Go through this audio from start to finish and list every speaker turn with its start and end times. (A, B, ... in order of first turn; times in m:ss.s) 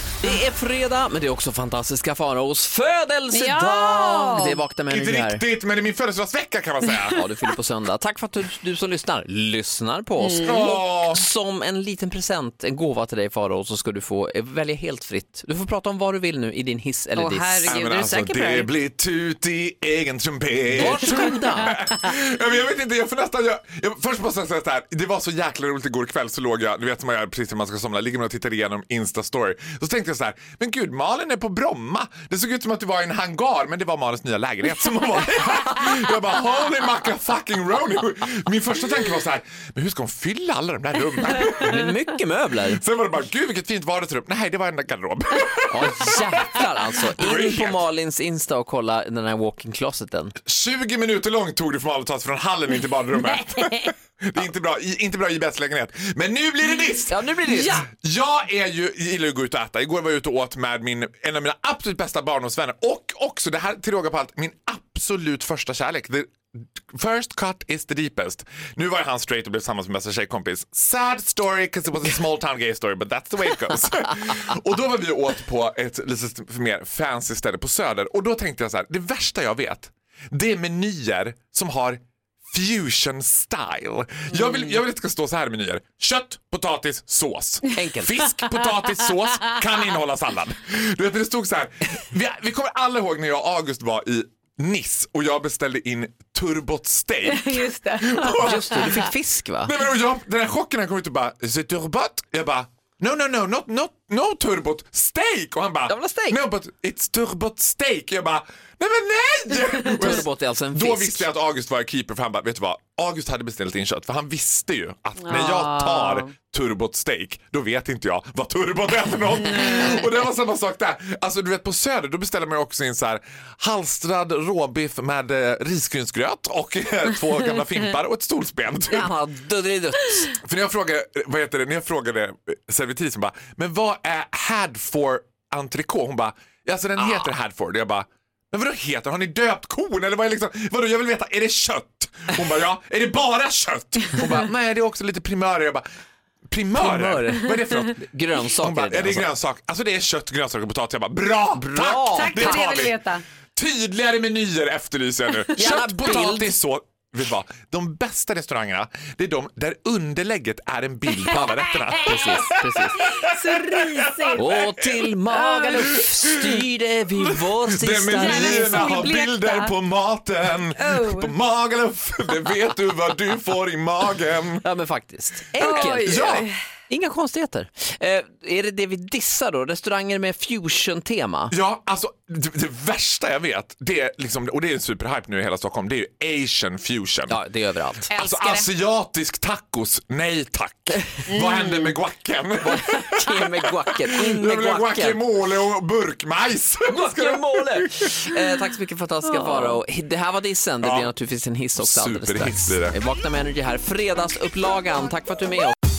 0:00.2-0:05.4 A
0:03.3-0:04.6 B
0:04.9-0:07.2 C
0:07.1-0:17.8 A
0:10.2-0:10.6 B
0:10.4-0:11.2 C
0:17.2-0:18.7 B
0:17.7-0:42.0 C
0:20.7-0:21.8 A
0:41.6-0:42.8 A
0:42.7-0:47.8 C
0:45.7-0:50.3 A
0:50.4-1:39.0 C
0:57.1-0:57.9 A
1:27.7-1:28.3 A
1:37.3-1:39.0 B
1:38.4-1:39.7 A
1:39.6-2:09.1 C
1:45.9-1:46.4 A
1:49.8-1:51.3 A
1:55.2-1:56.2 B
1:59.5-2:00.0 B
2:08.9-2:10.3 A
2:10.4-2:25.8 C
2:17.0-2:17.2 A
2:26.5-2:32.9 C
2:26.7-2:29.3 A
2:31.5-2:32.6 A
2:32.1-2:33.2 B
2:33.6-2:45.1 C
2:35.6-2:36.5 A
2:42.0-2:43.0 A
2:43.0-2:44.6 B
2:44.4-2:49.0 A
2:45.3-2:46.0 B
2:45.8-2:46.6 C
2:47.1-2:54.6 C
2:48.1-2:49.7 B
2:50.7-2:51.3 B
2:54.6-2:56.2 A
2:55.6-2:56.5 C
2:55.6-2:56.6 B
2:56.9-3:01.5 A
3:01.5-3:07.4 C
3:07.3-3:08.1 A
3:08.1-3:08.7 B
3:08.1-3:18.3 C
3:11.3-3:11.7 B
3:12.6-3:15.2 A
3:16.9-3:25.7 A
3:19.5-3:19.7 B
3:20.8-3:21.1 C
3:21.8-3:22.9 C